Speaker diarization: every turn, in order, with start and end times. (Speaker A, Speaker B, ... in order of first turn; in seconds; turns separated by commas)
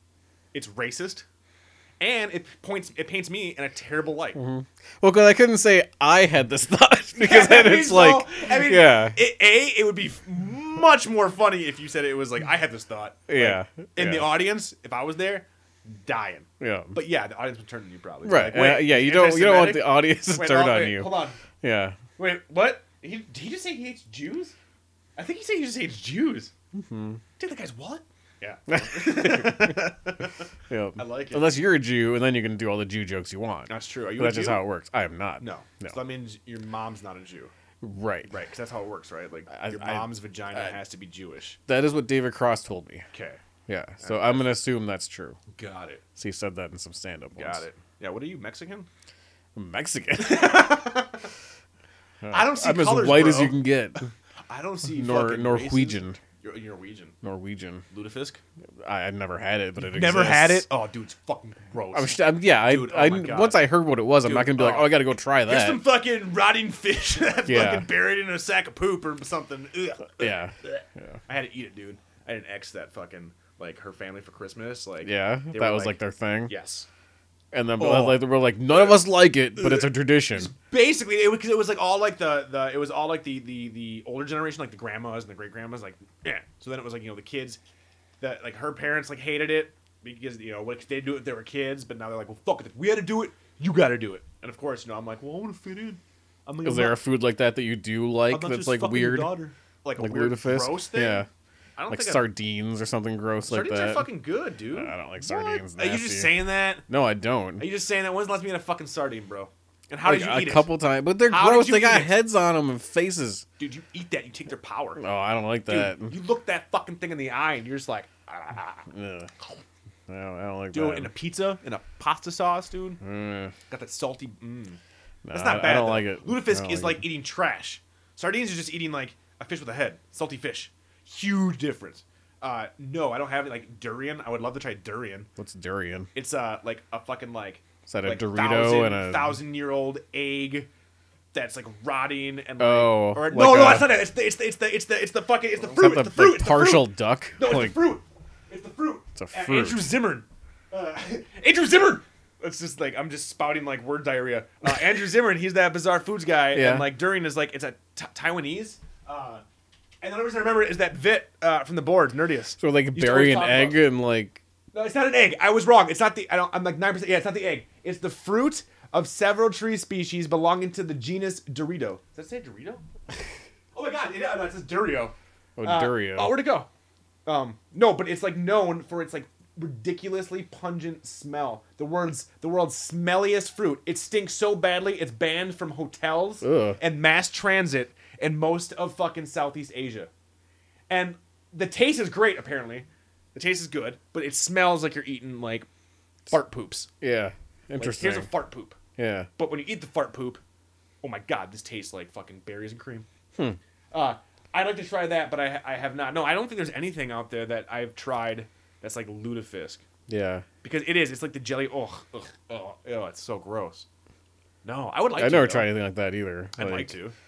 Speaker A: 0.5-1.2, Speaker A: 2.0-4.4, Speaker B: 4.3-9.2, Speaker A: 7.2-21.4, Speaker B: 13.3-14.4, Speaker B: 16.6-16.9, Speaker B: 18.2-22.0, Speaker A: 22.2-24.5, Speaker A: 25.1-26.5, Speaker B: 26.7-27.2, Speaker A: 27.4-30.4, Speaker B: 28.7-29.8, Speaker B: 30.7-36.0, Speaker A: 31.0-31.5, Speaker A: 33.7-34.6, Speaker A: 35.4-37.5, Speaker B: 37.8-38.3, Speaker A: 38.3-41.6, Speaker B: 39.5-40.8, Speaker B: 41.7-43.0, Speaker A: 43.1-43.4, Speaker B: 43.7-45.4, Speaker A: 44.0-44.5, Speaker A: 45.5-46.0, Speaker B: 46.2-47.6, Speaker A: 47.4-48.9, Speaker B: 49.5-50.8, Speaker A: 50.2-51.3, Speaker B: 52.2-54.1, Speaker A: 52.3-57.1, Speaker B: 54.9-56.2, Speaker B: 57.2-57.8, Speaker A: 57.9-58.4, Speaker B: 58.8-60.6, Speaker A: 59.8-76.9, Speaker B: 61.9-65.8, Speaker B: 67.5-67.9, Speaker B: 70.2-71.2, Speaker B: 75.0-76.5, Speaker B: 77.5-80.5, Speaker A: 77.8-87.6, Speaker A: 88.2-97.0, Speaker B: 96.6-99.4, Speaker A: 98.3-101.2, Speaker B: 100.0-101.3, Speaker A: 101.8-102.3, Speaker B: 101.9-104.1, Speaker A: 103.5-106.8, Speaker B: 104.7-107.7, Speaker A: 107.6-110.7, Speaker B: 110.0-113.4, Speaker A: 111.3-112.2, Speaker A: 113.6-115.0, Speaker B: 115.0-116.2, Speaker A: 115.7-118.9, Speaker B: 118.9-119.3, Speaker B: 120.1-121.1, Speaker A: 120.7-123.0, Speaker B: 123.0-123.5, Speaker A: 123.7-124.8, Speaker B: 125.2-127.0, Speaker A: 125.3-135.3, Speaker B: 135.4-136.1, Speaker A: 136.1-140.7, Speaker B: 137.9-139.4, Speaker A: 141.3-159.4, Speaker B: 142.6-144.0, Speaker B: 145.6-147.9, Speaker B: 149.2-149.9, Speaker B: 156.5-156.9, Speaker A: 160.0-163.8, Speaker B: 162.6-164.4, Speaker A: 164.7-172.8, Speaker A: 173.7-176.7, Speaker B: 175.6-176.4, Speaker A: 177.2-190.1, Speaker B: 186.4-186.8, Speaker A: 190.9-195.7, Speaker A: 196.3-196.9, Speaker B: 197.0-198.3, Speaker A: 197.8-198.8, Speaker B: 199.0-199.3, Speaker A: 199.4-200.4, Speaker A: 201.0-203.1, Speaker A: 203.9-209.8, Speaker B: 210.1-210.4, Speaker A: 210.6-213.8, Speaker A: 214.6-215.7, Speaker B: 215.2-216.9, Speaker A: 216.6-217.1